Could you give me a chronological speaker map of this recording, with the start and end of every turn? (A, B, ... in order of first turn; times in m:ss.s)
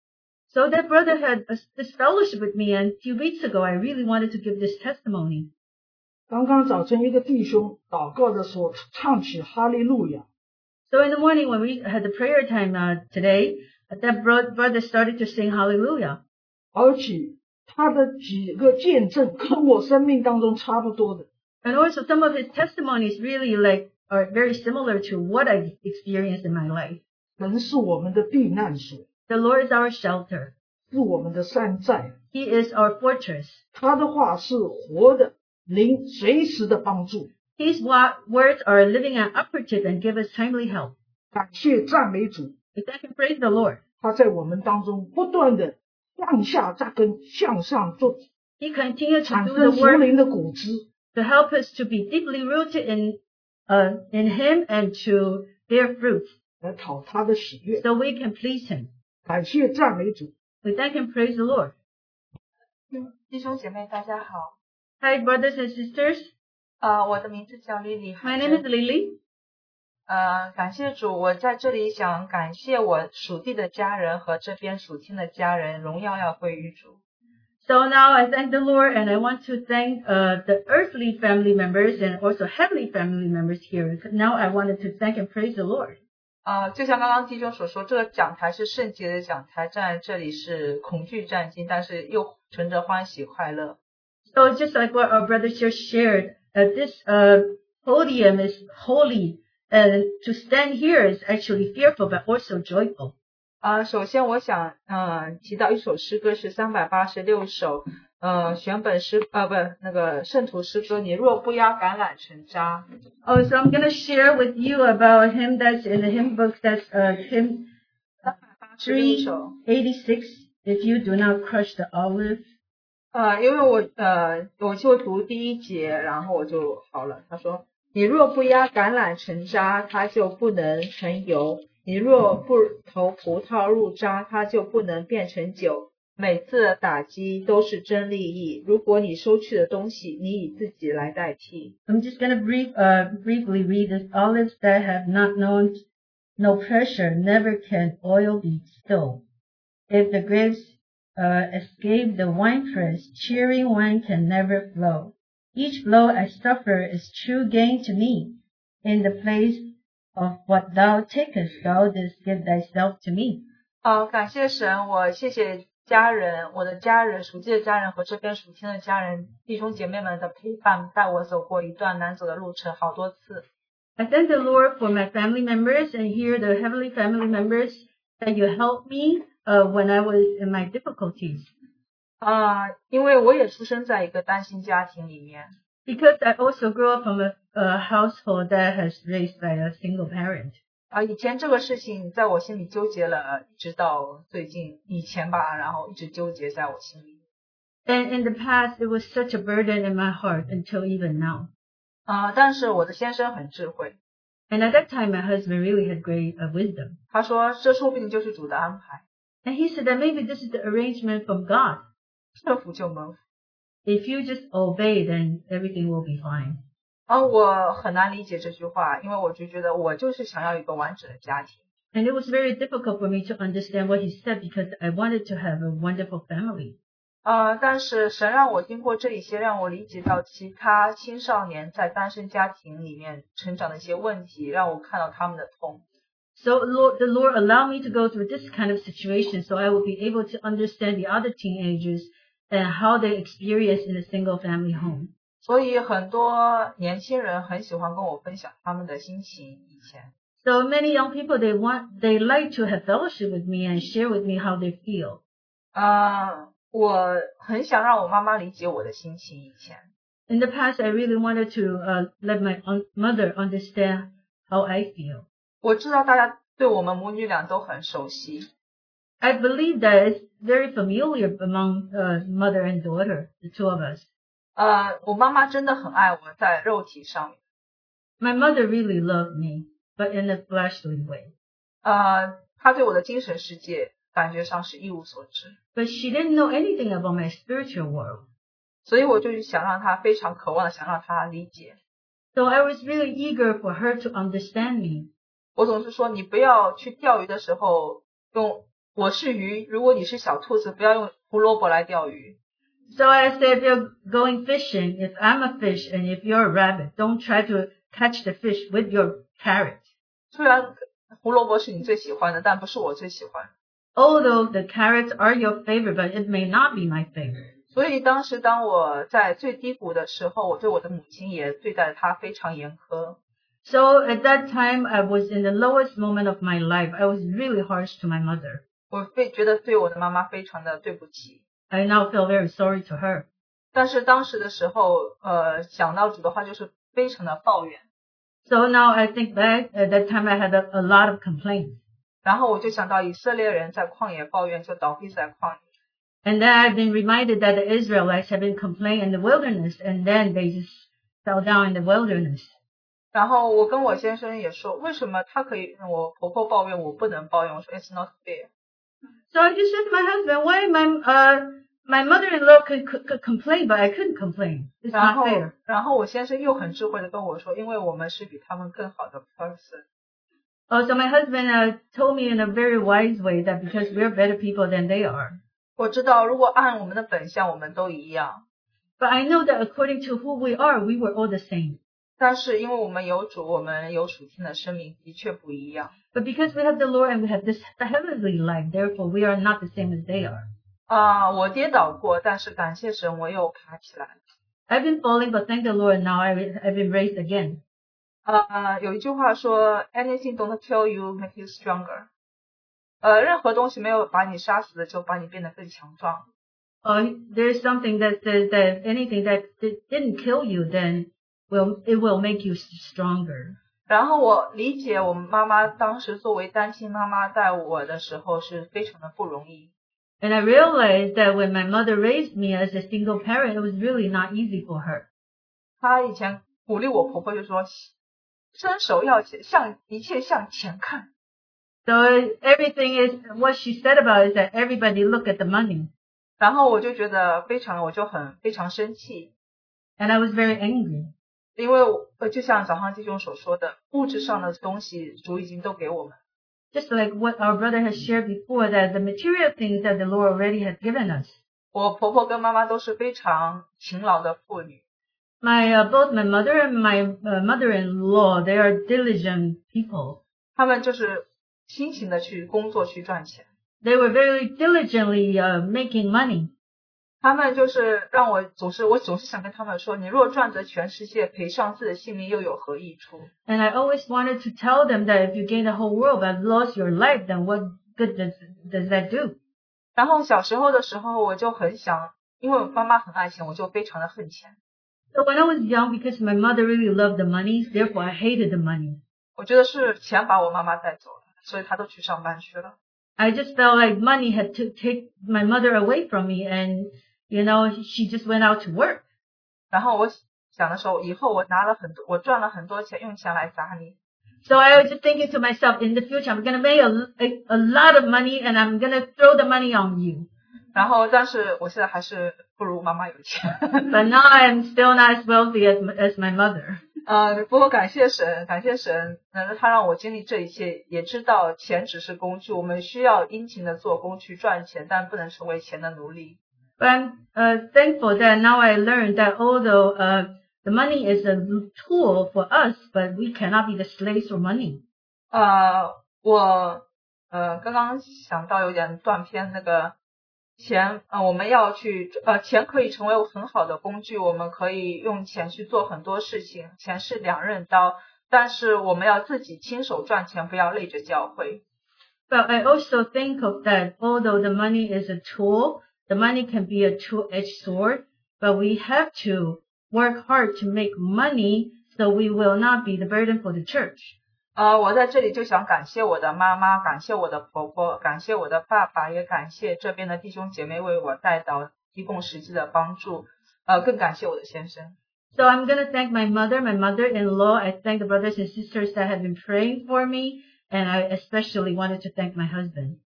0:00.5-0:05.5 A
0:06.3-0:10.3 B
0:10.9-0:16.2 A
0:16.7-0:21.3 B
0:21.6-0:27.0 A
0:27.4-0:29.0 B
0:29.3-0:30.5 A
0:30.9-0:32.2 B
0:32.3-0:33.6 A
0:33.7-0:37.3 B
0:37.6-0:41.0 A
0:41.3-0:42.5 B
0:42.7-0:43.8 A
0:44.0-0:48.2 B
0:48.6-0:50.1 A
0:49.2-0:50.8 B
0:51.1-0:56.3 A
0:56.6-0:57.8 B
0:57.8-0:58.9 A
0:59.2-1:00.3 B
1:00.6-1:01.7 A
1:02.9-1:04.5 C
1:05.0-1:06.3 A
1:06.8-1:08.6 C
1:08.2-1:09.2 A
1:10.1-1:17.0 C
1:17.6-1:26.0 A
1:26.4-1:33.8 C
1:34.3-1:43.1 A
1:43.6-1:52.8 C
1:53.2-1:57.7 A
1:58.2-1:59.5 C
1:58.8-2:02.4 A
2:03.1-2:21.7 C
2:21.9-2:25.8 A
2:26.4-2:29.2 A
2:29.9-2:43.5 A
2:43.8-2:53.4 C
2:54.0-3:01.5 A
3:02.2-3:05.5 C
3:05.8-3:10.6 A
3:10.9-3:17.2 C
3:17.8-3:21.5 A
3:22.1-3:24.0 C
3:24.5-3:27.0 A
3:27.1-3:29.0 C
3:29.4-3:31.8 A
3:32.3-3:33.2 C
3:33.8-3:36.6 A
3:37.1-3:41.6 C
3:41.9-3:46.8 A
3:47.2-3:55.8 C
3:56.3-4:05.1 A
4:05.4-4:10.1 C
4:10.4-4:15.2 A
4:15.7-4:19.9 C
4:20.3-4:25.2 A
4:25.6-4:28.5 C
4:29.2-4:34.1 A
4:34.6-4:37.4 C
4:38.2-4:41.3 A
4:41.8-4:45.6 C
4:45.7-4:48.2 A
4:48.8-4:51.8 C
4:52.3-4:55.1 A
4:55.6-5:02.4 C
5:02.9-5:09.8 A
5:10.3-5:13.5 C
5:14.0-5:17.5 A
5:17.7-5:23.2 C
5:23.6-5:28.6 A
5:28.9-5:31.4 C
5:31.7-5:33.3 A
5:33.7-5:37.8 C
5:38.4-5:41.8 A
5:42.2-5:45.6 C
5:46.2-5:52.5 A
5:53.1-5:58.5 C
5:59.3-6:05.5 A
6:04.9-6:09.8 C
6:10.7-6:15.4 A
6:15.8-6:18.4 C
6:19.0-6:21.8 A
6:22.2-6:25.9 C
6:26.1-6:30.4 A
6:30.9-6:34.2 C
6:34.7-6:37.6 A
6:38.2-6:42.1 C
6:43.0-6:46.3 C
6:46.8-6:53.6 A
6:53.9-6:59.7 C
7:00.2-7:05.1 A
7:05.8-7:07.9 C
7:08.5-7:11.1 C
7:11.8-7:15.9 A
7:16.4-7:19.3 C
7:20.0-7:21.1 A
7:21.6-7:26.2 C
7:26.7-7:31.4 A
7:31.7-7:34.8 C
7:35.4-7:40.2 A
7:40.6-7:43.5 C
7:43.8-7:46.5 A
7:47.2-7:53.3 C
7:53.4-7:59.4 A
8:00.0-8:04.6 C
8:05.1-8:09.0 A
8:09.4-8:12.8 C
8:13.2-8:19.0 A
8:19.7-8:24.0 C
8:24.4-8:30.3 A
8:30.7-8:34.0 C
8:33.9-8:36.8 A
8:37.0-8:46.4 C
8:46.8-8:54.8 A
8:55.3-8:59.9 C
9:00.6-9:11.6 C
9:12.3-9:24.1 A
9:24.6-9:35.0 C
9:35.3-9:43.0 A